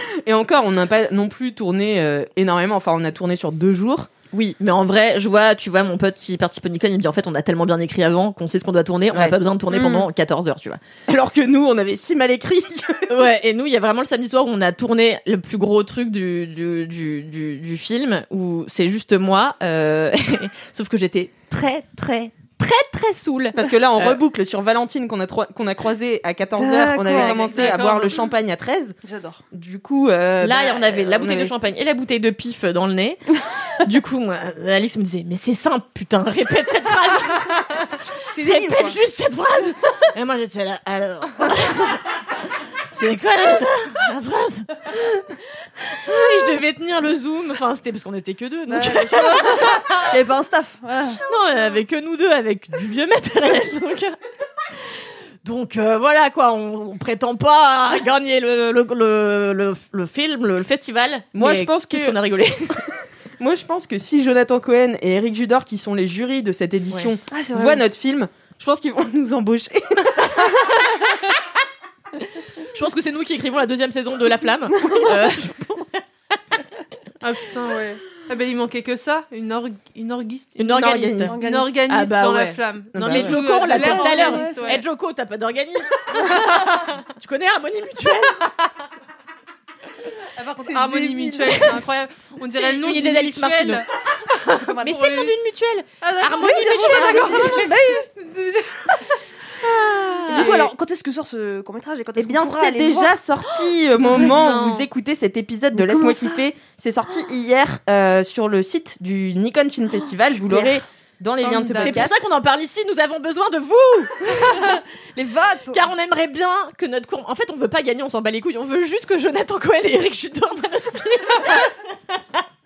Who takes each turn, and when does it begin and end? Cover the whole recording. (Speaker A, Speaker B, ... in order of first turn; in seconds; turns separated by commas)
Speaker A: 0.2-4.1, Speaker B: 4.3-10.8, Speaker A: 11.1-13.1, Speaker B: 13.1-24.2, Speaker A: 23.5-28.9, Speaker C: 26.6-27.9, Speaker B: 27.1-28.0, Speaker D: 27.6-28.2, Speaker C: 29.0-29.4, Speaker A: 29.5-31.5, Speaker B: 30.4-42.2, Speaker C: 38.4-39.0, Speaker B: 42.9-45.3, Speaker B: 45.8-50.1, Speaker C: 48.7-51.2, Speaker B: 51.3-54.2, Speaker B: 55.4-62.9, Speaker A: 61.4-62.2, Speaker A: 63.4-70.3, Speaker C: 67.3-67.8, Speaker B: 72.6-76.6, Speaker C: 74.8-75.2, Speaker D: 77.2-80.7, Speaker B: 80.6-88.5, Speaker A: 80.7-81.4, Speaker C: 81.3-81.9, Speaker D: 81.4-84.8, Speaker A: 82.9-83.4, Speaker C: 83.6-84.8, Speaker D: 86.2-87.0, Speaker D: 90.3-93.9, Speaker C: 90.6-91.7, Speaker B: 92.5-97.9, Speaker C: 94.5-95.0, Speaker D: 94.9-95.3, Speaker D: 96.0-99.1, Speaker C: 96.6-98.0, Speaker B: 99.6-100.7, Speaker C: 100.3-103.2, Speaker A: 102.2-112.2, Speaker B: 104.0-104.9, Speaker C: 105.7-106.4, Speaker C: 111.5-111.8, Speaker B: 111.6-114.8, Speaker C: 114.4-115.8, Speaker B: 115.7-122.4